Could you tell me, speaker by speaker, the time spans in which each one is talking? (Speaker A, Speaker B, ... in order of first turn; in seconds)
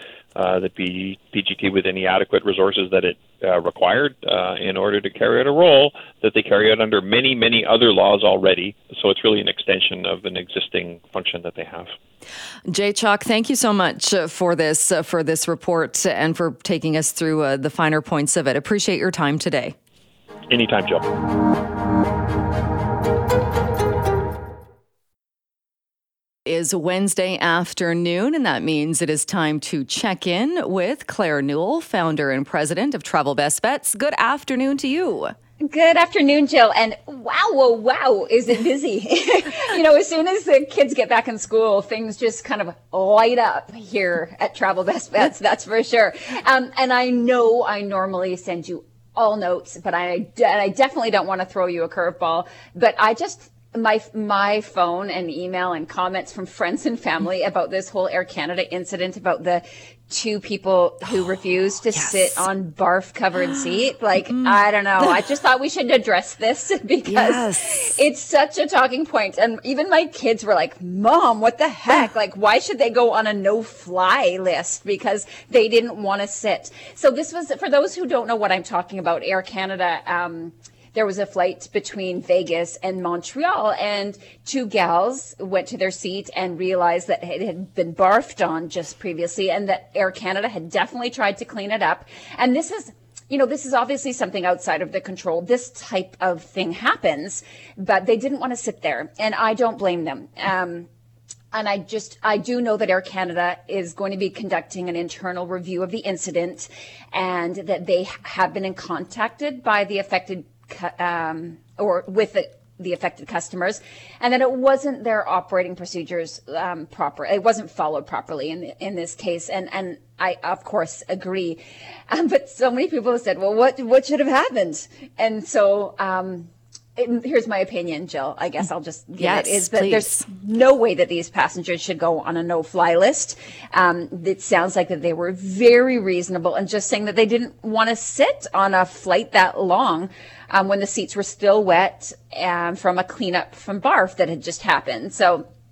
Speaker A: 0.3-11.9, 20.5-21.0
Speaker B: 12.7-19.8, 26.5-35.4, 67.1-68.0, 129.2-130.3
Speaker C: 35.6-100.9, 101.5-145.5